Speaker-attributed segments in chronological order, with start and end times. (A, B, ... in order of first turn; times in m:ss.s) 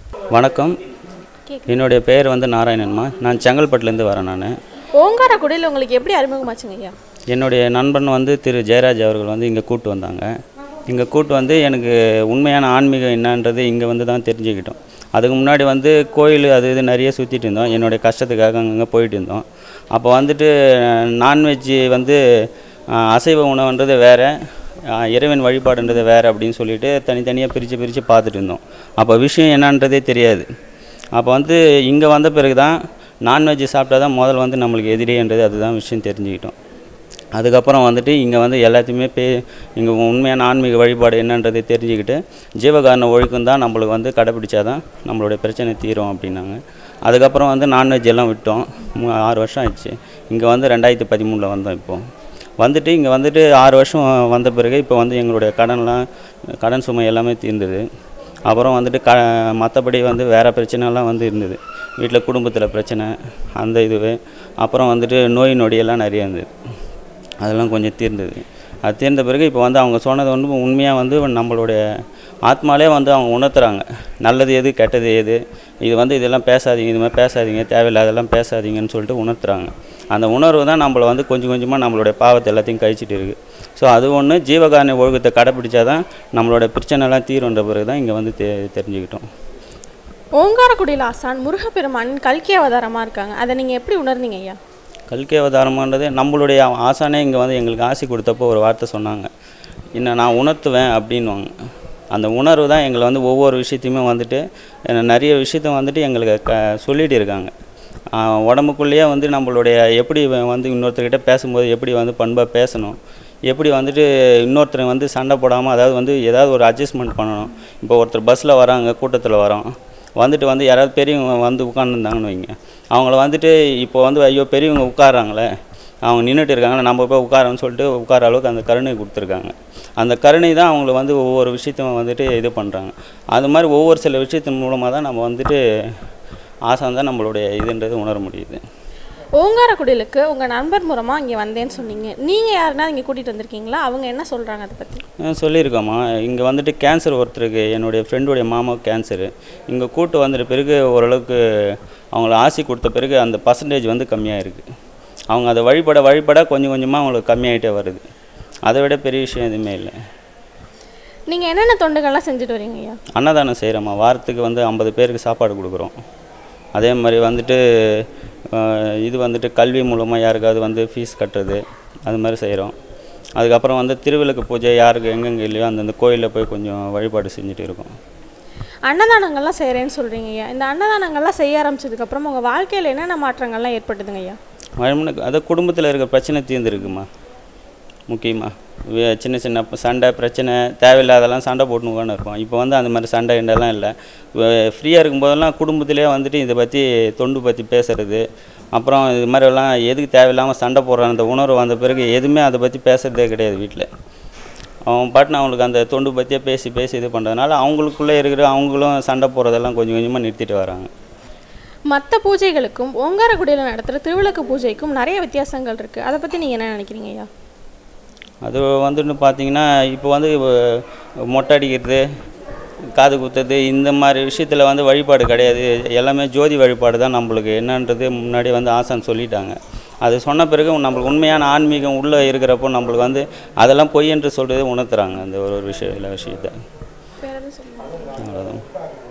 0:00.3-0:00.7 A
0:01.7-0:04.5 A
0:05.0-0:07.0 B
0:07.3-0:10.3 A
0:10.9-0:22.2 A
0:22.9-0:24.3 A
0:24.9-0:30.5 A
0:31.1-0:36.5 A
0:37.3-0:52.0 A
0:52.6-0:57.8 A
0:58.5-1:06.5 A
1:07.4-1:11.8 A
1:12.5-1:29.2 A
1:30.4-1:34.6 B
1:35.1-1:39.3 A
1:40.0-1:41.5 A
1:42.1-1:47.5 A
1:48.1-1:53.0 A
1:53.5-2:05.5 A
2:06.0-2:16.0 A
2:16.7-2:18.6 A
2:19.3-2:25.0 B
2:25.2-2:34.7 A
2:35.3-2:38.0 A
2:38.7-2:40.0 A
2:41.3-2:43.0 B
2:43.1-2:45.9 A
2:46.8-2:52.8 A
2:53.4-2:57.9 A
2:58.9-3:04.4 B
3:04.8-3:07.1 A
3:08.1-3:23.9 A
3:24.9-3:30.9 A
3:31.9-3:37.3 B
3:38.4-3:42.0 A
3:42.9-3:56.5 A
3:57.2-3:58.1 B
3:58.2-3:58.6 A